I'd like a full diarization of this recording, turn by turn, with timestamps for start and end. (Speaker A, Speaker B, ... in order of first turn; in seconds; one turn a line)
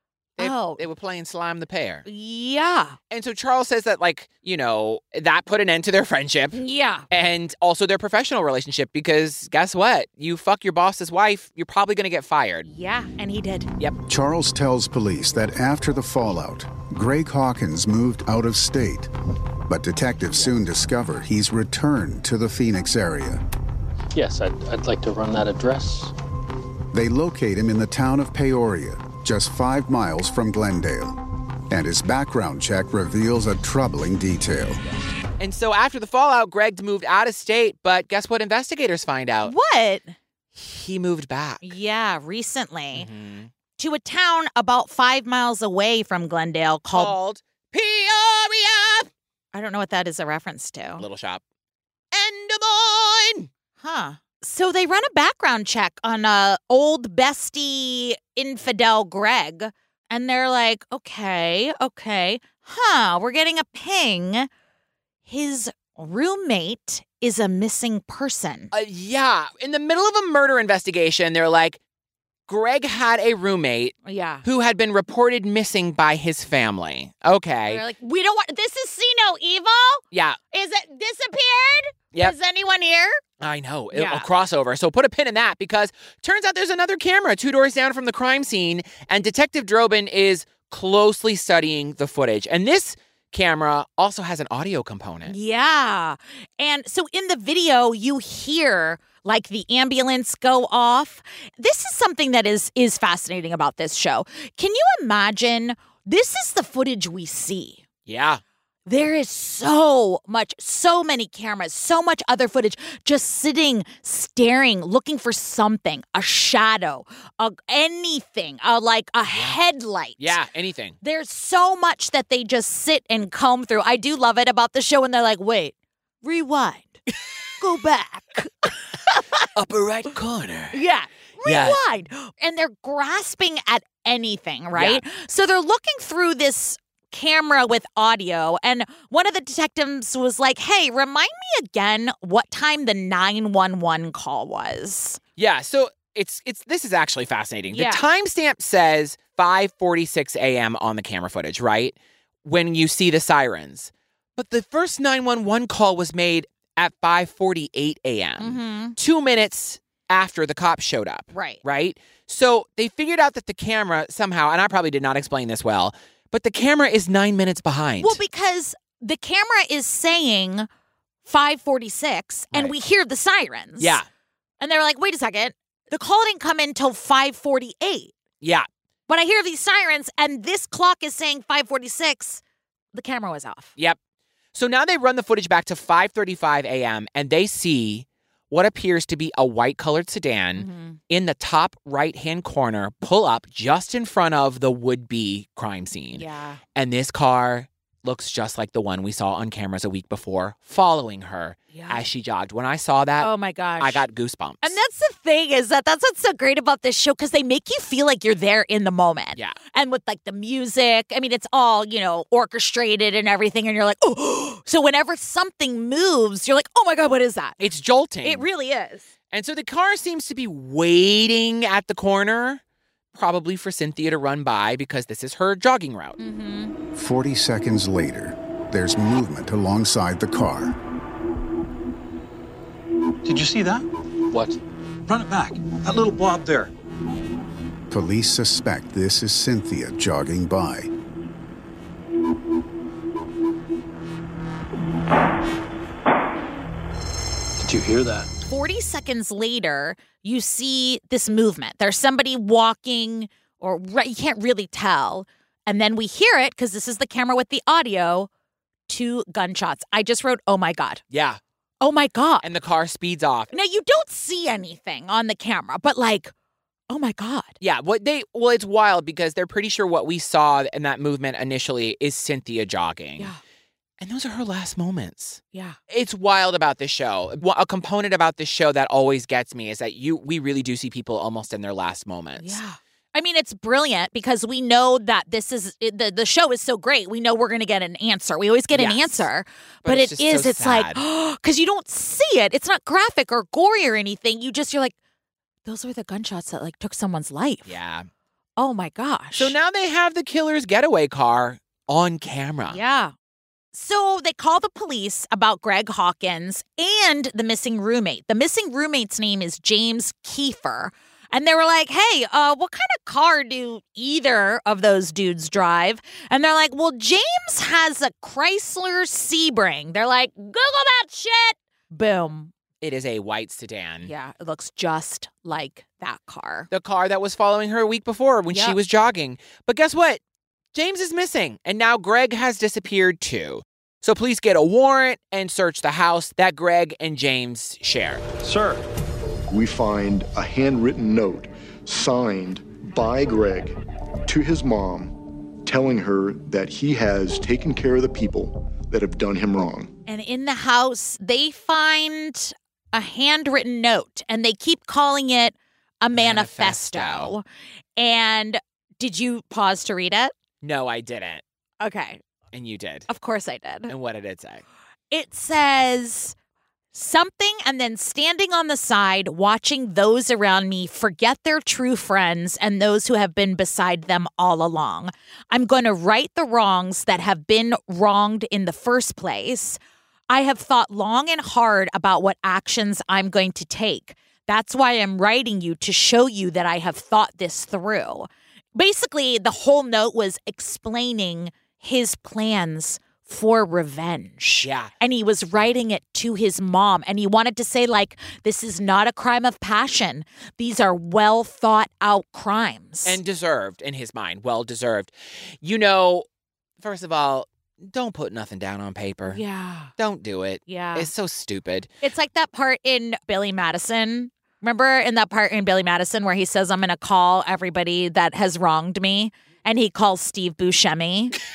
Speaker A: 0.4-2.1
Speaker B: 0.4-0.8
Speaker B: 2.1-3.0
Speaker A: 3.1-6.6
Speaker B: 6.5-7.0
Speaker A: 7.1-12.7
Speaker B: 12.7-13.7
Speaker C: 14.1-19.1
Speaker C: 19.7-23.4
Speaker D: 24.1-26.1
Speaker C: 26.9-34.8
Speaker A: 35.4-39.5
Speaker B: 39.4-40.1
Speaker A: 40.5-41.7
Speaker B: 41.6-43.1
Speaker A: 42.9-43.5
Speaker B: 43.8-47.1
Speaker A: 46.9-49.1
Speaker B: 49.5-51.0
Speaker A: 51.0-51.4
Speaker A: 52.1-53.5
Speaker B: 53.8-64.5
Speaker B: 65.3-68.7
Speaker A: 68.7-71.8
Speaker A: 72.5-77.8
Speaker B: 74.1-74.4
Speaker B: 77.7-83.2
Speaker A: 80.1-80.4
Speaker A: 83.4-95.3
Speaker B: 83.9-84.3
Speaker B: 95.3-107.8
Speaker A: 108.1-108.4
Speaker B: 108.9-120.4
Speaker A: 119.3-119.6
Speaker A: 120.2-121.0
Speaker B: 121.0-127.0
Speaker B: 127.6-129.5
Speaker A: 129.6-130.8
Speaker B: 130.7-145.2
Speaker A: 131.4-131.8
Speaker A: 134.8-135.0
Speaker A: 145.4-168.2
Speaker B: 147.7-148.0
Speaker B: 158.4-159.0
Speaker B: 161.3-161.6
Speaker B: 168.0-170.7
Speaker B: 171.2-174.0
Speaker A: 173.8-174.1
Speaker B: 174.6-178.1
Speaker A: 178.4-178.7
Speaker B: 179.1-182.4
Speaker B: 182.9-183.7
Speaker A: 184.5-204.8
Speaker B: 190.6-191.0
Speaker B: 196.1-196.6
Speaker B: 201.7-202.0
Speaker B: 203.2-204.0
Speaker B: 204.6-217.6
Speaker A: 217.6-218.5
Speaker B: 218.2-219.1
Speaker A: 219.3-222.6
Speaker A: 223.1-226.2
Speaker B: 226.2-226.8
Speaker C: 226.9-230.8
Speaker E: 233.2-233.8
Speaker D: 234.3-234.6
Speaker E: 235.1-236.7
Speaker C: 237.9-240.9
Speaker D: 247.6-248.3
Speaker B: 248.4-258.3
Speaker B: 258.9-261.0
Speaker A: 261.1-261.4
Speaker B: 261.8-262.4
Speaker A: 262.4-263.5
Speaker B: 263.5-266.3
Speaker B: 266.9-267.6
Speaker A: 267.6-273.3
Speaker A: 274.0-282.6
Speaker B: 282.4-294.9
Speaker A: 288.7-289.3
Speaker A: 289.8-291.0
Speaker B: 295.7-297.8
Speaker A: 297.7-298.1
Speaker B: 298.6-299.6
Speaker A: 299.4-302.8
Speaker B: 302.7-303.1
Speaker B: 303.7-322.5
Speaker A: 322.8-324.1
Speaker B: 324.0-326.7
Speaker A: 326.7-330.2
Speaker B: 328.5-328.8
Speaker A: 330.7-338.2
Speaker D: 338.4-338.8
Speaker F: 339.5-349.9
Speaker B: 350.1-357.4
Speaker A: 356.2-357.3
Speaker B: 358.0-360.3
Speaker A: 360.6-361.4
Speaker B: 361.8-362.2
Speaker A: 362.5-363.1
Speaker B: 363.1-363.9
Speaker A: 363.9-364.6
Speaker B: 365.1-366.4
Speaker B: 366.9-379.8
Speaker B: 380.3-403.2
Speaker A: 394.6-394.9
Speaker A: 403.1-406.3
Speaker A: 406.8-409.4
Speaker B: 409.3-409.9
Speaker A: 410.0-411.9
Speaker B: 410.7-411.1
Speaker B: 412.0-421.4